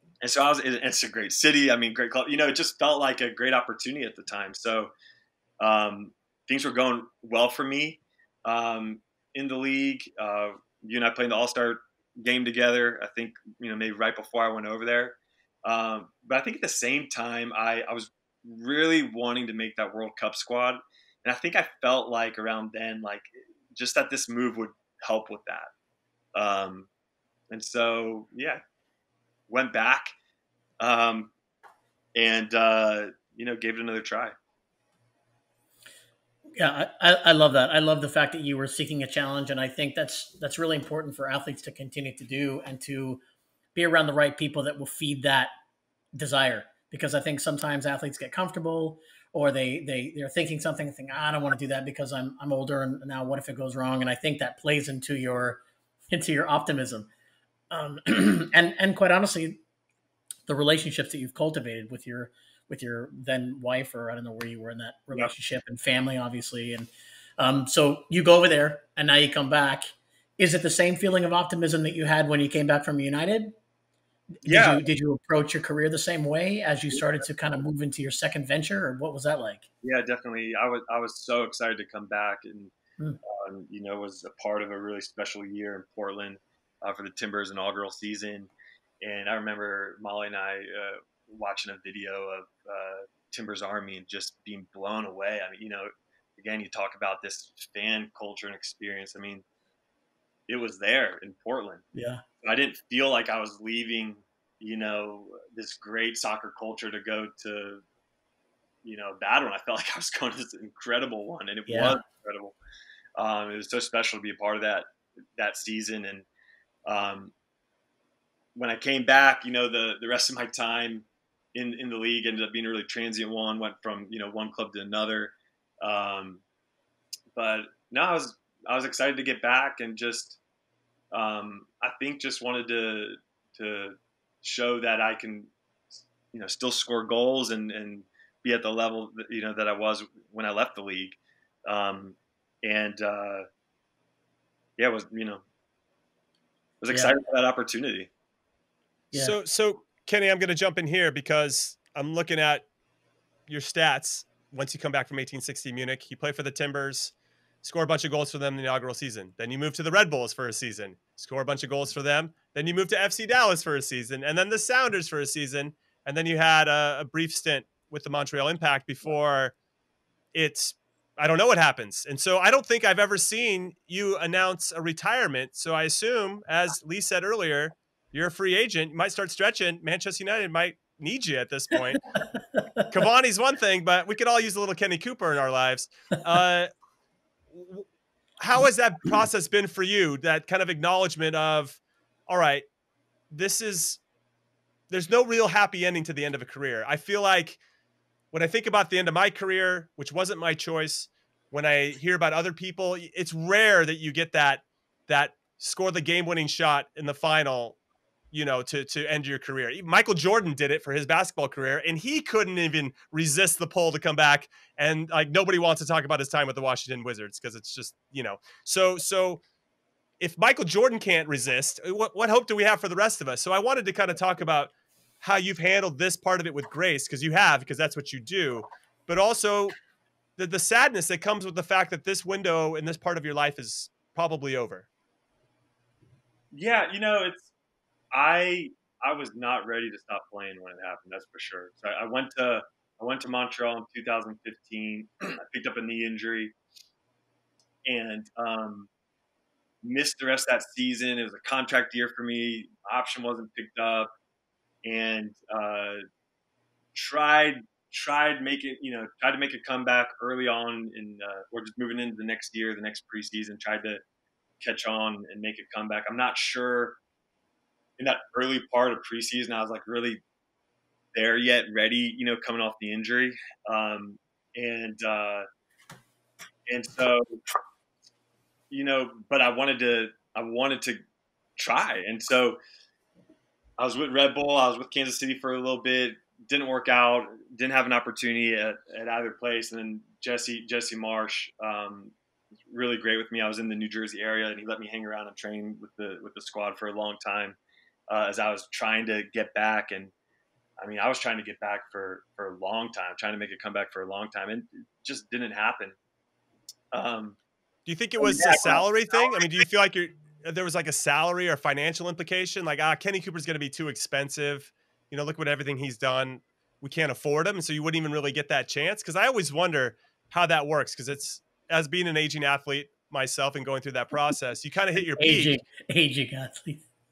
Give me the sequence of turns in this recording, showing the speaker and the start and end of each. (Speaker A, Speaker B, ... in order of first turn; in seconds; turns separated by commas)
Speaker A: 0.2-4.9, Speaker A: 5.6-25.7, Speaker A: 26.4-26.9, Speaker A: 27.5-28.6, Speaker A: 29.5-30.1, Speaker A: 30.8-31.3, Speaker A: 32.1-34.4, Speaker B: 36.6-43.2, Speaker B: 43.8-45.5, Speaker B: 46.1-57.1, Speaker B: 57.7-59.6, Speaker B: 60.5-73.5, Speaker B: 74.4-79.7, Speaker A: 74.5-74.8, Speaker A: 79.8-82.7, Speaker A: 83.2-99.4, Speaker A: 100.5-101.8, Speaker B: 101.9-102.2, Speaker A: 102.4-107.8, Speaker A: 108.8-112.6, Speaker B: 111.7-112.0, Speaker A: 113.2-116.3, Speaker A: 116.9-117.3, Speaker A: 118.5-126.4, Speaker A: 127.3-130.4, Speaker A: 131.1-143.4, Speaker A: 144.8-145.4, Speaker A: 146.8-148.1, Speaker C: 149.1-152.7, Speaker C: 153.5-169.5, Speaker C: 170.3-182.1, Speaker B: 182.6-182.9, Speaker C: 182.9-186.7, Speaker C: 187.5-187.8, Speaker C: 188.4-192.7, Speaker C: 193.3-194.0, Speaker C: 194.9-197.6, Speaker C: 198.3-207.8, Speaker C: 208.3-219.4, Speaker C: 220.2-229.8, Speaker C: 230.4-234.9, Speaker A: 236.5-237.5, Speaker A: 238.1-246.5, Speaker A: 247.9-248.9, Speaker A: 249.8-254.1, Speaker A: 254.8-256.0, Speaker A: 256.9-264.0, Speaker A: 264.6-267.0, Speaker A: 268.0-270.2, Speaker A: 271.1-275.4, Speaker A: 276.7-277.4, Speaker A: 278.7-281.0, Speaker A: 281.6-282.6, Speaker A: 283.8-292.1, Speaker A: 292.7-297.6, Speaker A: 298.1-300.1, Speaker A: 300.8-306.0, Speaker A: 306.9-307.4, Speaker C: 307.9-325.5, Speaker A: 308.2-309.5, Speaker B: 325.0-326.8